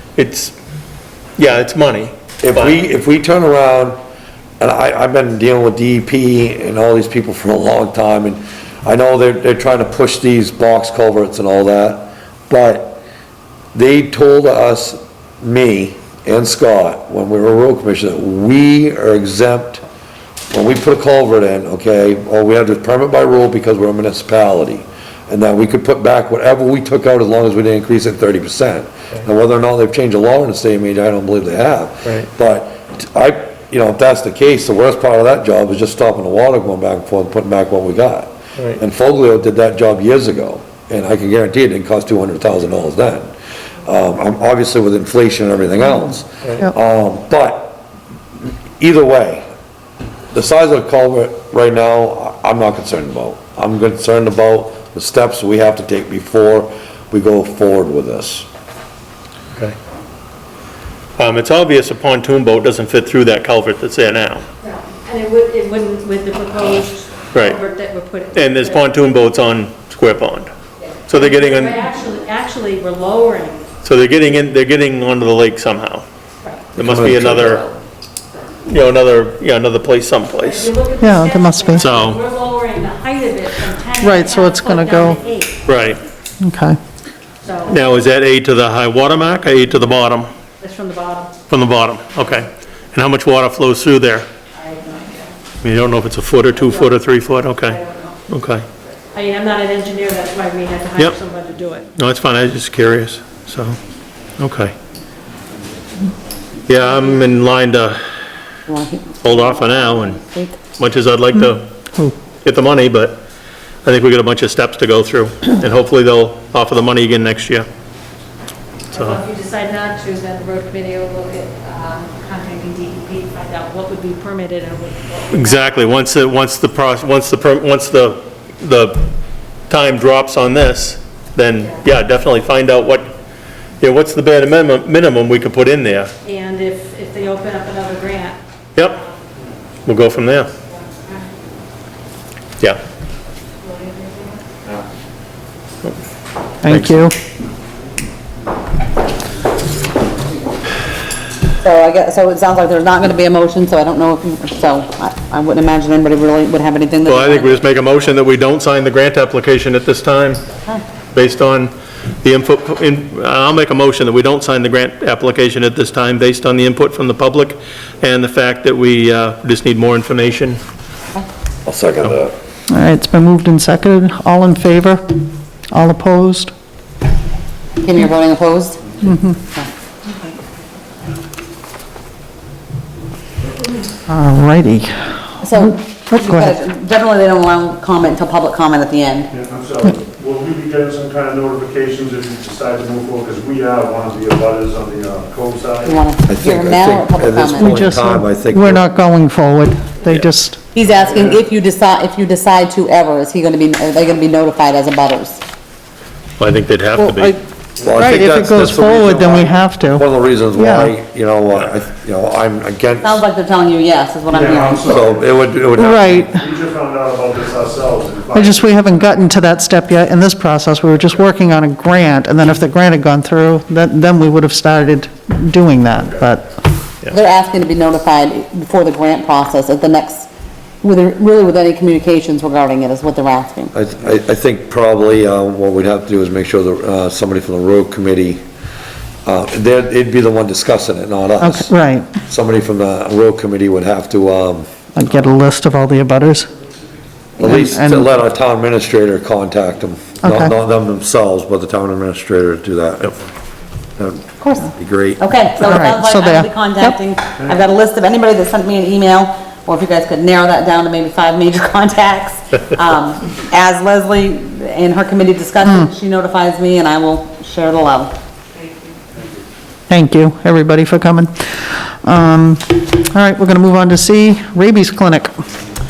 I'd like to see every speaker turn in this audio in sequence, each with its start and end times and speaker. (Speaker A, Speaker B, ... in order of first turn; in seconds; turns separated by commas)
Speaker A: 0.1-0.5, Speaker A: 1.4-2.8, Speaker B: 2.4-4.0, Speaker B: 4.6-13.0, Speaker B: 13.7-19.8, Speaker B: 20.5-43.3, Speaker B: 43.8-47.8, Speaker B: 48.8-49.4, Speaker B: 50.3-58.5, Speaker A: 61.2-64.4, Speaker C: 64.6-69.0, Speaker A: 67.3-67.6, Speaker A: 68.3-70.5, Speaker A: 71.1-71.8, Speaker C: 71.1-73.7, Speaker A: 73.8-76.0, Speaker B: 76.7-77.8, Speaker A: 76.8-77.6, Speaker A: 78.7-80.7, Speaker C: 80.4-85.6, Speaker D: 81.0-81.9, Speaker A: 81.8-82.2, Speaker D: 84.0-85.2, Speaker A: 85.7-86.0, Speaker D: 86.4-86.8, Speaker C: 87.4-87.8, Speaker A: 87.7-90.3, Speaker C: 90.6-91.3, Speaker A: 91.5-94.2, Speaker C: 94.7-95.2, Speaker A: 95.6-98.6, Speaker C: 99.1-101.9, Speaker A: 102.0-103.8, Speaker A: 104.4-104.7, Speaker A: 106.7-108.0, Speaker E: 108.7-110.6, Speaker A: 109.2-110.2, Speaker A: 110.8-111.7, Speaker A: 112.4-113.2, Speaker A: 113.8-117.7, Speaker C: 118.9-125.8, Speaker A: 118.9-119.2, Speaker A: 125.3-129.0, Speaker A: 129.7-133.1, Speaker A: 133.8-136.1, Speaker C: 136.2-138.4, Speaker A: 138.8-139.0, Speaker A: 139.8-140.5, Speaker D: 146.6-147.2, Speaker A: 146.7-146.9, Speaker E: 151.6-157.6, Speaker A: 157.0-160.4, Speaker A: 161.1-161.7, Speaker A: 162.2-170.6, Speaker B: 171.6-172.3, Speaker D: 172.7-175.2, Speaker D: 175.7-176.5, Speaker E: 177.8-179.7, Speaker D: 179.0-179.4, Speaker D: 184.1-186.6, Speaker E: 185.4-189.3, Speaker F: 189.3-196.0, Speaker E: 195.8-197.8, Speaker B: 196.3-198.9, Speaker D: 197.5-200.7, Speaker E: 200.7-205.4, Speaker F: 201.0-201.4, Speaker A: 206.4-207.4, Speaker D: 207.1-207.3, Speaker B: 207.8-213.2, Speaker D: 207.9-210.0, Speaker D: 210.5-210.9, Speaker E: 213.0-215.0, Speaker F: 214.3-218.8, Speaker B: 214.9-216.2, Speaker D: 215.8-216.3, Speaker D: 218.3-226.5, Speaker E: 227.1-230.3, Speaker E: 230.8-233.7, Speaker B: 233.7-238.4, Speaker B: 239.2-241.7, Speaker D: 241.4-242.1, Speaker B: 242.3-244.7, Speaker D: 245.0-246.5, Speaker B: 247.4-253.2, Speaker D: 247.4-248.1, Speaker D: 250.2-250.5, Speaker B: 254.0-255.2, Speaker E: 254.4-254.7, Speaker E: 255.2-268.1, Speaker D: 255.6-256.9, Speaker D: 265.6-265.9, Speaker D: 269.9-275.3